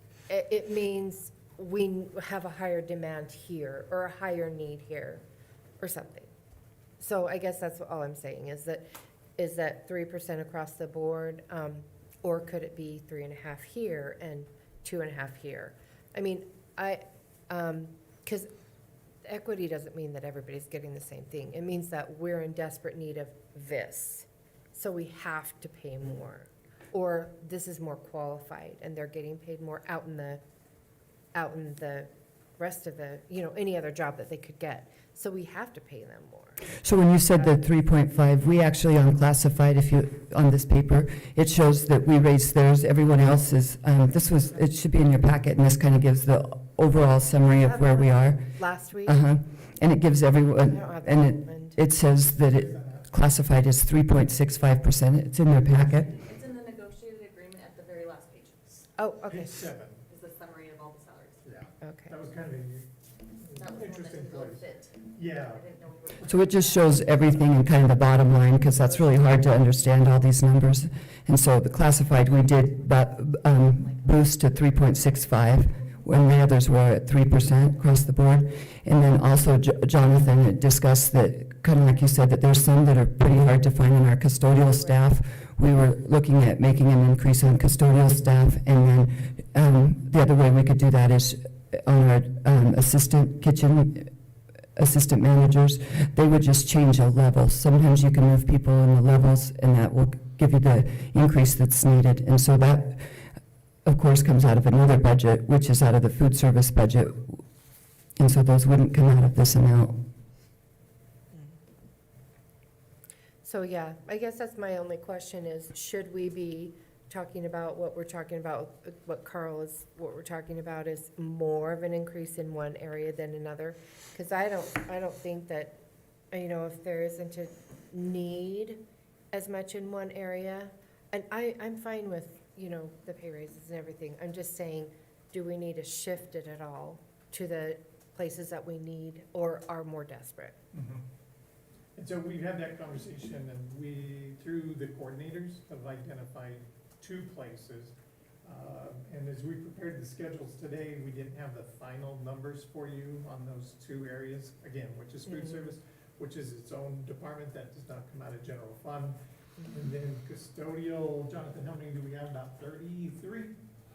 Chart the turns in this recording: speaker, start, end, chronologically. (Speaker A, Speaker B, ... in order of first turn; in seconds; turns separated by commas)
Speaker A: 0.3-5.2, Speaker A: 5.8-6.3, Speaker A: 7.0-8.9, Speaker A: 9.4-18.5, Speaker A: 19.2-30.4, Speaker A: 31.3-36.6, Speaker B: 36.8-48.4, Speaker A: 47.6-49.2, Speaker B: 49.1-56.1, Speaker A: 50.7-51.8, Speaker C: 52.5-53.1, Speaker D: 56.1-58.5, Speaker A: 59.0-59.5, Speaker C: 59.3-60.0, Speaker D: 60.1-61.4, Speaker C: 61.5-62.9, Speaker A: 61.8-62.1, Speaker C: 63.4-65.7, Speaker D: 63.6-67.0, Speaker B: 66.2-94.1, Speaker B: 94.8-103.1, Speaker B: 103.9-107.3, Speaker B: 108.2-110.0, Speaker A: 113.4-125.8, Speaker A: 126.3-128.8, Speaker A: 129.3-140.6, Speaker C: 140.7-141.0, Speaker C: 142.0-163.5, Speaker A: 155.3-155.7